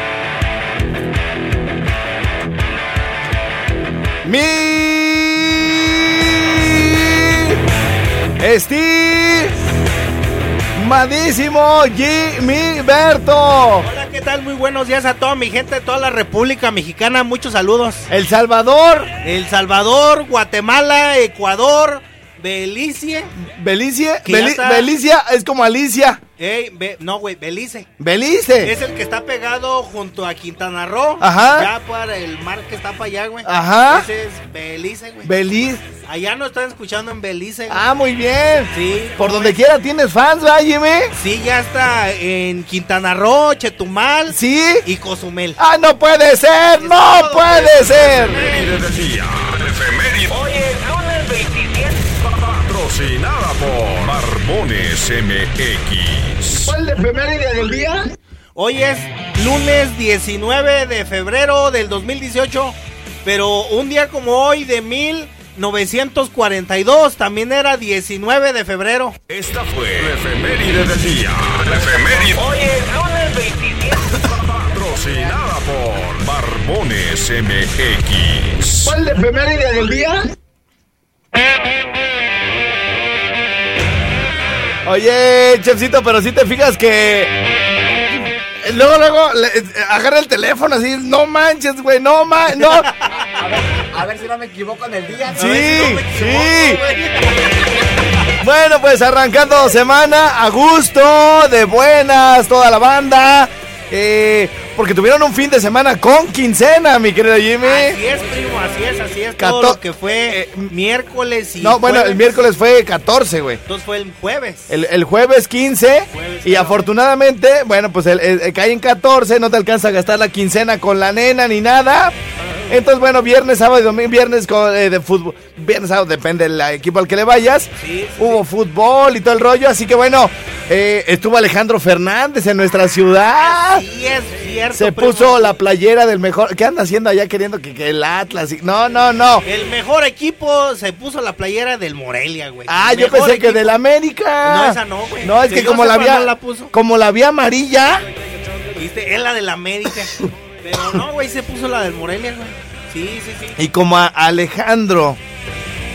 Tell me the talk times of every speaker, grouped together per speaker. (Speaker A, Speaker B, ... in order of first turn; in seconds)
Speaker A: 4.2-7.6, 8.4-9.5, 10.7-13.9, 18.1-19.1, 23.4-26.2, 28.0-28.7, 31.2-31.7, 33.4-34.1, 35.2-35.8, 37.7-41.1, 44.3-44.9, 45.6-48.4, 56.6-58.1, 78.8-80.3, 84.8-87.3, 88.6-92.9, 95.3-96.8, 98.4-108.0, 109.4-110.7, 111.6-113.6, 114.7-122.1, 122.7-133.8, 134.7-139.4, 142.7-148.0, 153.6-155.2
Speaker B: 13.8-18.1, 19.2-23.3, 24.2-24.9, 26.4-27.9, 28.6-35.3, 36.0-37.8, 38.7-39.6, 41.2-45.6, 46.8-48.8, 58.5-69.2, 95.3-97.5, 107.6-112.5, 113.7-114.7, 116.1-116.8, 127.8-128.4, 133.3-135.5, 139.4-143.8, 144.4-146.7, 148.7-153.6
Speaker C: 48.3-56.8, 69.3-78.9
Speaker D: 93.3-95.5